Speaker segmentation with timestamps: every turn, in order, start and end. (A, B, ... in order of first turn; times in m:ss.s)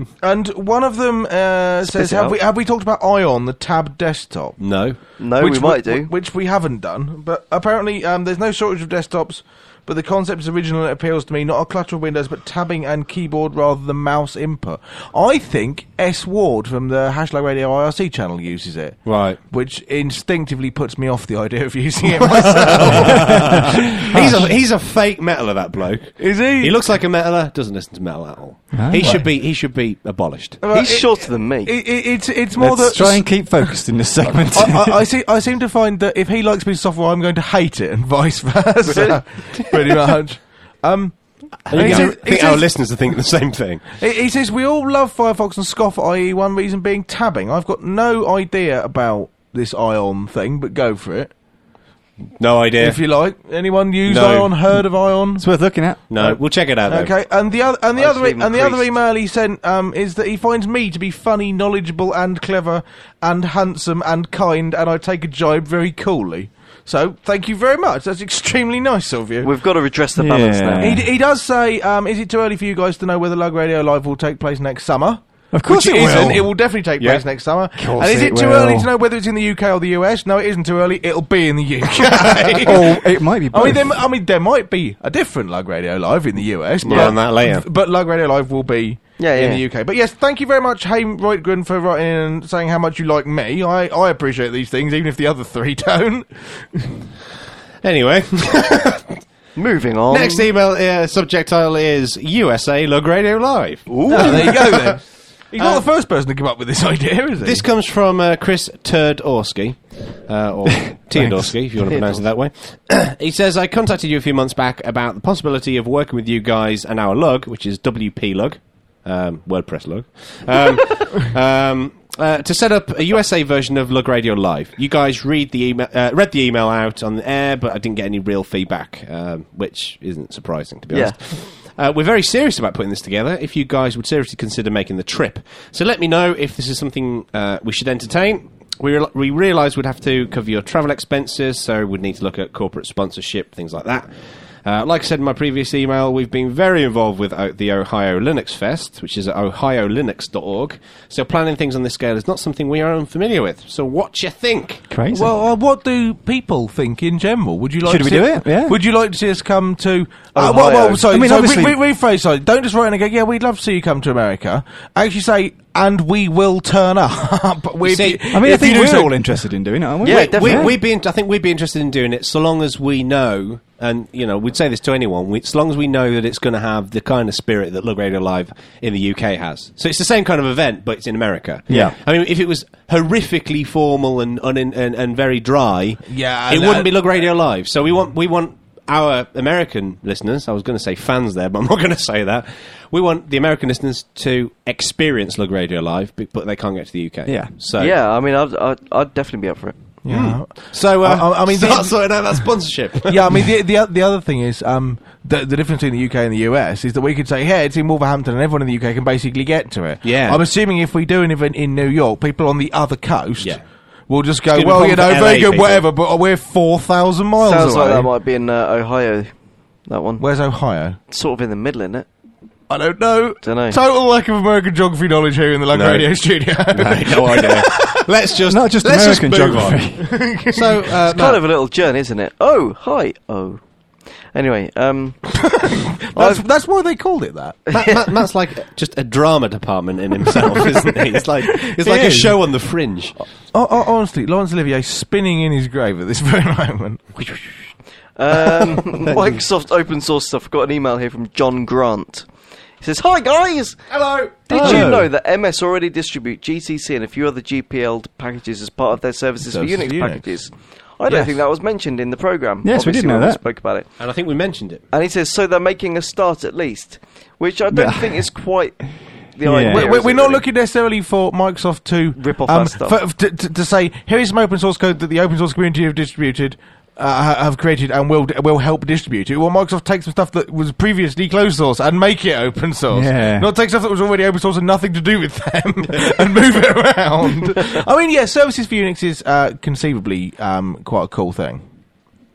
0:00.2-0:04.7 A
0:01.8-0:02.4 B
0:04.6-0:05.0 C
0:05.2-0:06.1 B
0:05.4-0:24.3 A
0:19.0-0:19.4 C
0:22.3-0:30.6 C
0:24.1-0:24.4 D
0:26.2-0:26.8 A
0:28.7-0:29.2 D
0:29.0-0:29.3 A
0:30.6-0:33.6 A
0:30.7-0:31.8 B
0:32.6-0:35.0 D
0:34.5-0:42.9 A
0:38.9-0:39.2 B
0:41.7-0:43.9 C
0:44.0-0:51.3 A
0:52.4-0:53.0 C
0:52.8-0:55.5 A
0:54.1-0:54.6 C
0:55.4-0:56.0 D
0:56.1-0:57.1 C
0:56.2-1:09.5 A
0:58.0-0:58.9 B
1:09.4-1:10.9 B
1:10.2-1:11.1 D
1:10.8-1:37.0 A
1:15.5-1:16.5 D
1:17.8-1:18.9 D
1:22.6-1:24.0 D
1:26.8-1:27.7 C
1:29.2-1:29.6 B
1:37.8-1:39.2 C
1:39.6-1:40.5 B
1:40.1-1:45.0 C
1:43.9-1:44.6 B
1:44.0-1:47.7 A
1:45.6-1:45.9 C
1:47.4-2:24.1 C
1:51.1-1:51.6 D
2:10.9-2:11.2 B
2:24.6-2:34.9 C
2:34.9-2:35.3 D
2:35.1-2:49.2 A
2:37.8-2:38.8 D
2:40.3-2:41.1 B
2:41.1-2:41.8 D
2:47.8-2:48.3 C
2:48.3-2:50.8 D
2:50.0-2:50.8 B
2:50.1-3:18.0 C
3:01.7-3:02.0 D
3:06.1-3:06.9 A
3:17.3-3:17.5 D
3:17.8-3:19.8 B
3:20.0-3:21.9 A
3:20.1-3:23.2 C
3:23.1-3:38.1 A
3:30.0-3:30.4 C
3:34.5-3:35.9 C
3:37.4-3:39.3 B
3:39.9-3:40.3 B
3:40.2-3:41.0 A
3:41.1-3:42.1 B
3:42.7-3:48.0 A
3:43.4-3:43.8 B
3:45.7-3:46.1 C
3:46.7-3:49.8 C
3:48.5-3:50.3 D
3:50.0-3:51.0 A
3:50.5-3:51.4 C
3:51.1-3:53.6 B
3:54.3-3:55.4 B
3:55.4-3:57.7 A
3:56.1-3:56.4 B
3:57.7-4:03.2 C
4:01.6-4:02.4 A
4:03.5-4:07.3 A
4:08.2-4:12.3 B
4:12.8-4:13.8 B
4:13.9-4:15.0 C
4:14.5-4:23.9 B
4:14.6-4:15.0 D
4:19.4-4:20.3 A
4:21.1-4:21.4 A
4:22.6-4:23.4 D
4:24.0-4:24.8 C
4:24.9-4:28.8 B
4:27.7-4:28.3 D
4:29.4-4:30.5 B
4:29.4-4:29.9 D
4:29.7-4:51.6 A
4:32.2-4:33.0 B
4:42.9-4:43.5 D